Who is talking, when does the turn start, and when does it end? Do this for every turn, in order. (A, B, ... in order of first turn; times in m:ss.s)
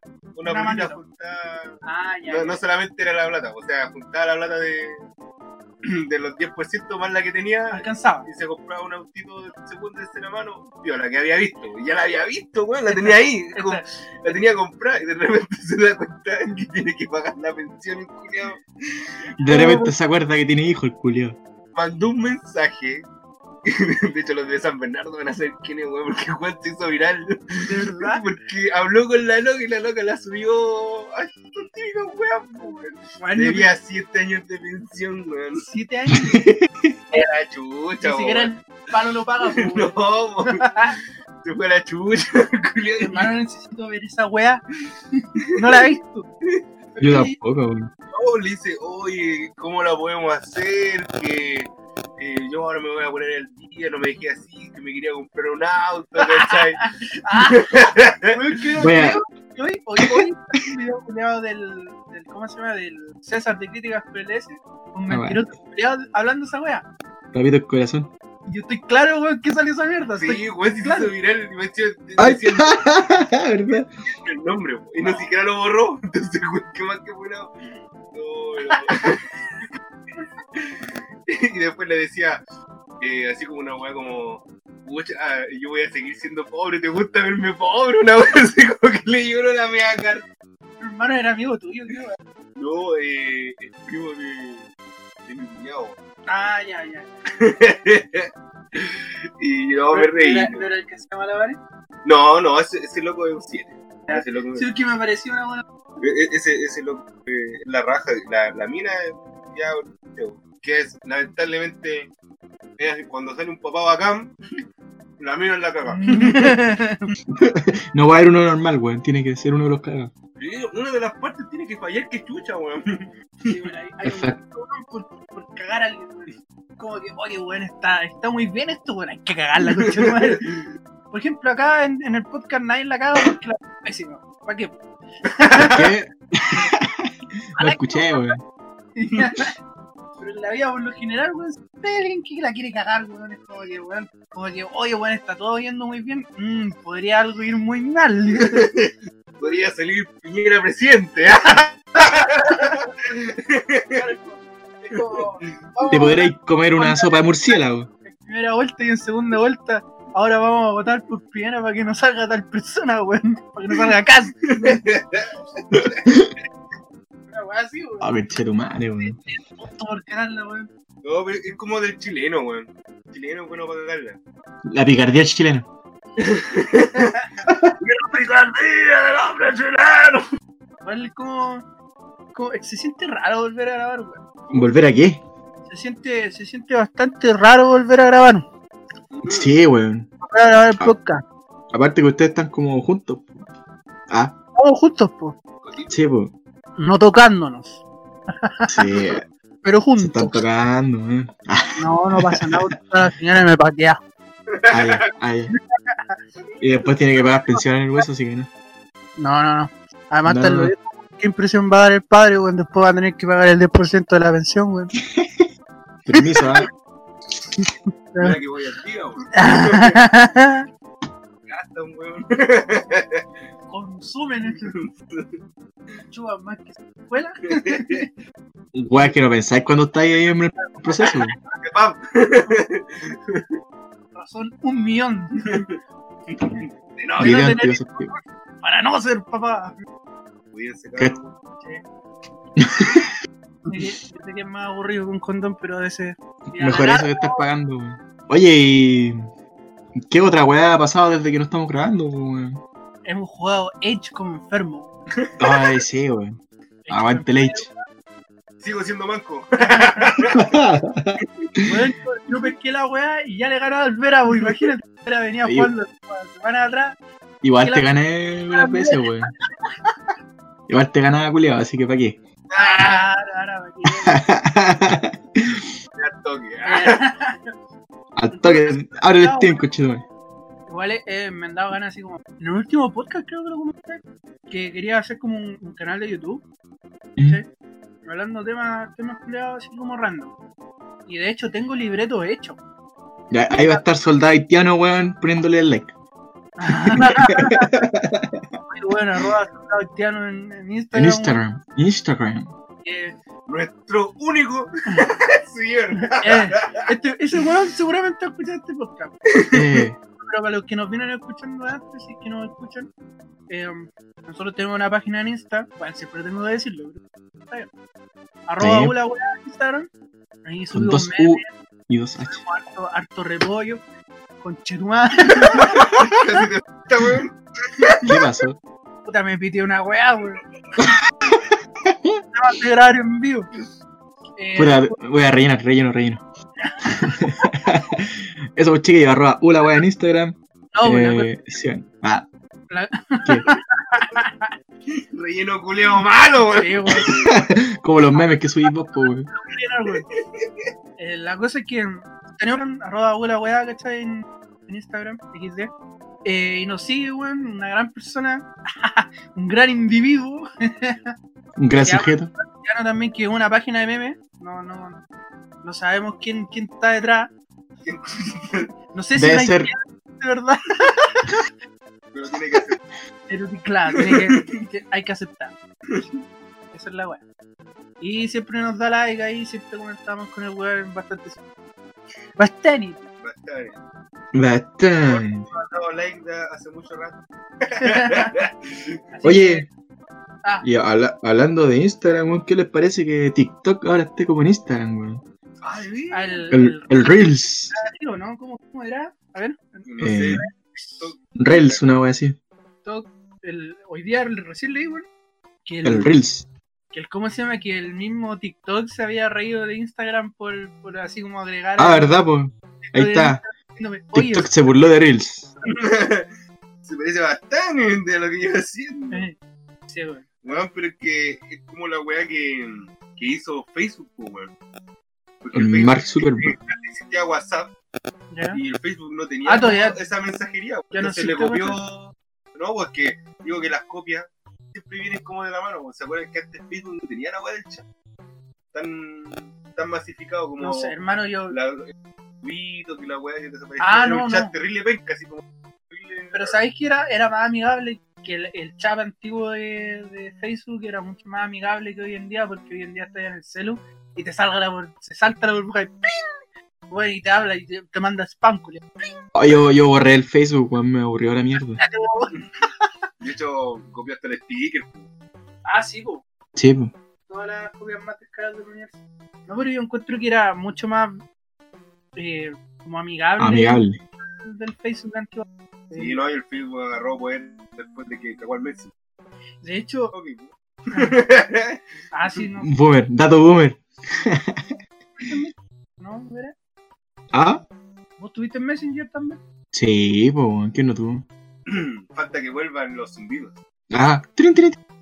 0:00.4-0:05.1 A
0:00.4-0:01.0 B
0:01.8-0:02.6 B
0:05.8-0:18.6 A
0:07.7-0:08.3 B
0:12.9-0:13.8 B
0:19.4-0:19.9 B
0:19.4-0:21.4 C
0:21.8-0:23.1 A
0:23.7-0:35.7 A
0:27.7-0:28.2 B
0:33.2-0:33.7 B
0:35.6-0:36.5 B
0:36.1-0:36.9 C
0:37.1-0:38.5 A
0:38.0-0:41.0 B
0:39.5-0:40.6 A
0:41.4-0:43.3 A
0:43.0-0:44.6 B
0:45.5-0:46.3 B
0:47.0-0:47.4 B
0:47.0-0:47.9 C
0:48.1-0:58.4 A
0:56.2-0:57.7 B
0:58.3-1:06.8 B
0:58.8-0:59.2 C
1:05.1-1:05.4 C
1:07.3-1:08.1 C
1:08.5-1:11.1 B
1:10.2-1:12.8 A
1:12.2-1:13.9 C
1:14.1-1:17.5 A
1:18.1-1:19.2 A
1:21.3-1:22.4 A
1:23.0-1:30.2 A
1:30.8-1:32.2 B
1:32.6-1:34.7 A
1:35.3-1:36.0 A
1:36.3-1:37.1 B
1:37.4-1:40.6 A
1:39.9-1:41.6 B
1:42.0-1:44.7 A
1:44.1-1:45.6 B
1:46.0-1:52.1 A
1:52.8-1:54.3 A
1:55.2-1:56.6 A
1:55.9-1:57.1 B
1:57.3-2:00.1 C
2:00.4-2:03.1 A
2:03.5-2:10.5 B
2:04.0-2:04.4 C
2:09.7-2:10.7 A
2:11.1-2:15.9 B
2:15.4-2:15.7 A
2:15.7-2:18.4 C
2:17.6-2:18.3 B
2:19.0-2:19.5 B
2:20.2-2:28.7 B
2:28.4-2:34.0 A
2:33.9-2:37.2 B
2:35.9-2:37.9 C
2:38.0-2:44.8 B
2:44.5-2:46.2 A
2:47.3-2:48.1 B
2:48.0-2:49.2 C
2:49.0-2:50.7 B
2:51.0-2:54.2 A
2:54.7-2:55.7 C
2:56.2-2:57.2 A
2:57.8-3:00.3 A
3:00.8-3:01.6 B
3:02.3-3:04.2 B
3:04.5-3:04.8 A
3:04.5-3:05.2 C
3:05.7-3:08.5 B
3:09.1-3:09.5 A
3:09.3-3:10.1 C
3:10.2-3:11.2 B
3:11.7-3:13.3 C
3:14.1-3:14.3 C
3:14.6-3:15.4 B
3:15.6-3:16.0 A
3:15.9-3:16.3 C
3:16.8-3:19.0 B
3:18.7-3:19.2 C
3:19.6-3:20.4 B
3:20.0-3:22.6 C
3:21.8-3:24.0 B
3:24.5-3:25.0 A
3:24.7-3:25.5 C
3:25.5-3:26.2 B
3:26.6-3:28.5 C
3:29.2-3:35.0 B
3:30.2-3:30.7 C
3:35.1-3:35.5 C
3:36.1-3:36.7 C
3:36.2-3:36.6 B
3:37.6-3:38.4 B
3:38.2-3:40.0 A
3:39.3-3:40.7 B
3:41.5-3:43.2 A
3:43.7-3:44.8 B
3:44.7-3:45.3 A
3:46.0-3:48.1 B
3:47.6-3:48.0 A
3:48.7-3:51.4 C
3:51.6-3:53.4 A
3:54.2-3:55.6 B
3:56.3-3:57.5 A
3:57.2-3:59.8 B
3:57.2-3:58.1 C
4:00.5-4:01.4 A
4:02.6-4:03.1 C
4:03.7-4:07.4 B
4:06.5-4:09.3 C
4:10.0-4:12.6 C
4:13.1-4:14.9 B
4:15.4-4:16.4 C
4:16.9-4:17.7 B
4:16.9-4:17.7 C
4:18.6-4:20.6 A
4:19.8-4:20.1 B
4:20.3-4:21.7 C
4:21.7-4:27.0 B
4:25.4-4:25.7 C
4:27.4-4:29.3 C
4:28.5-4:29.9 B
4:30.7-4:32.2 C
4:32.5-4:33.1 A
4:32.6-4:34.2 B
4:33.9-4:35.7 C
4:36.0-4:37.0 A
4:36.6-4:37.4 B
4:38.2-4:40.0 C
4:38.3-4:39.6 B
4:40.7-4:46.4 B
4:48.0-4:50.4 B
4:51.1-4:52.6 B
4:53.3-4:55.9 C
4:53.5-4:53.8 B
4:56.6-4:57.8 B
4:56.8-4:58.5 C
4:58.7-5:01.4 B
5:00.9-5:02.5 C
5:02.8-5:03.2 B
5:03.5-5:06.9 A
5:06.0-5:09.2 B
5:09.5-5:10.0 C
5:10.2-5:12.9 B
5:13.5-5:17.7 B
5:18.5-5:19.9 B
5:18.6-5:19.0 C
5:20.4-5:21.5 B
5:20.7-5:22.4 C
5:22.3-5:23.8 B
5:24.4-5:25.9 B
5:25.5-5:28.1 A
5:28.0-5:28.6 C
5:29.0-5:30.4 B
5:31.3-5:32.2 C
5:32.3-5:33.5 B
5:34.4-5:34.9 B
5:34.6-5:36.2 C
5:36.6-5:37.5 B
5:36.9-5:42.3 C
5:40.7-5:41.3 B
5:42.7-5:44.5 B
5:44.9-5:47.4 A
5:46.5-5:47.2 B
5:47.1-5:49.3 C
5:48.2-5:48.7 B
5:49.3-5:50.1 B
5:50.4-5:50.7 A
5:51.0-5:55.7 B
5:56.2-6:01.1 B
6:01.6-6:02.3 C
6:01.8-6:05.0 B
6:05.6-6:07.3 B
6:07.8-6:08.7 A
6:08.9-6:11.4 B
6:09.2-6:09.7 C
6:12.1-6:12.8 A
6:13.3-6:15.5 B
6:14.0-6:14.5 A
6:16.7-6:17.2 B
6:18.0-6:21.4 B
6:22.4-6:23.1 B
6:23.2-6:23.8 A
6:24.3-6:25.5 C
6:25.0-6:29.0 A
6:27.8-6:28.3 B
6:29.1-6:29.7 B
6:29.2-6:29.7 C
6:30.6-6:35.2 C
6:35.6-6:36.5 A
6:36.1-6:40.5 B
6:36.5-6:37.7 C
6:39.8-6:41.8 A
6:40.0-6:40.4 C
6:41.4-6:42.4 C
6:42.8-6:45.0 B
6:45.7-6:46.1 B
6:45.8-6:46.5 C
6:46.9-6:52.2 B
6:51.8-6:53.4 C
6:52.9-6:54.5 B
6:54.1-6:55.5 C
6:55.7-6:56.3 A
6:56.8-6:59.3 A
6:59.9-7:00.4 B
7:00.4-7:04.5 A
7:05.4-7:07.7 A
7:05.5-7:06.5 C
7:08.3-7:08.6 B
7:08.5-7:17.8 A
7:09.4-7:10.0 B
7:10.9-7:11.8 B
7:18.7-7:20.9 A
7:20.6-7:21.6 B
7:21.5-7:26.6 A
7:23.8-7:24.5 B
7:26.3-7:36.4 B
7:36.9-7:39.0 B
7:39.4-7:41.8 C
7:41.8-7:42.4 B
7:43.2-7:45.1 A
7:45.6-7:46.2 B
7:46.6-7:46.9 C
7:47.3-7:51.2 B
7:52.2-7:53.8 B
7:53.4-7:54.0 C
7:54.4-7:56.3 B
7:55.9-7:58.9 A
7:59.6-8:00.1 B
8:00.1-8:01.8 A
8:00.9-8:01.2 B
8:02.1-8:02.7 B
8:02.6-8:04.7 C
8:05.2-8:06.5 B
8:07.3-8:07.6 C
8:08.2-8:09.4 B
8:09.7-8:11.2 C
8:11.7-8:13.6 A
8:13.9-8:14.8 C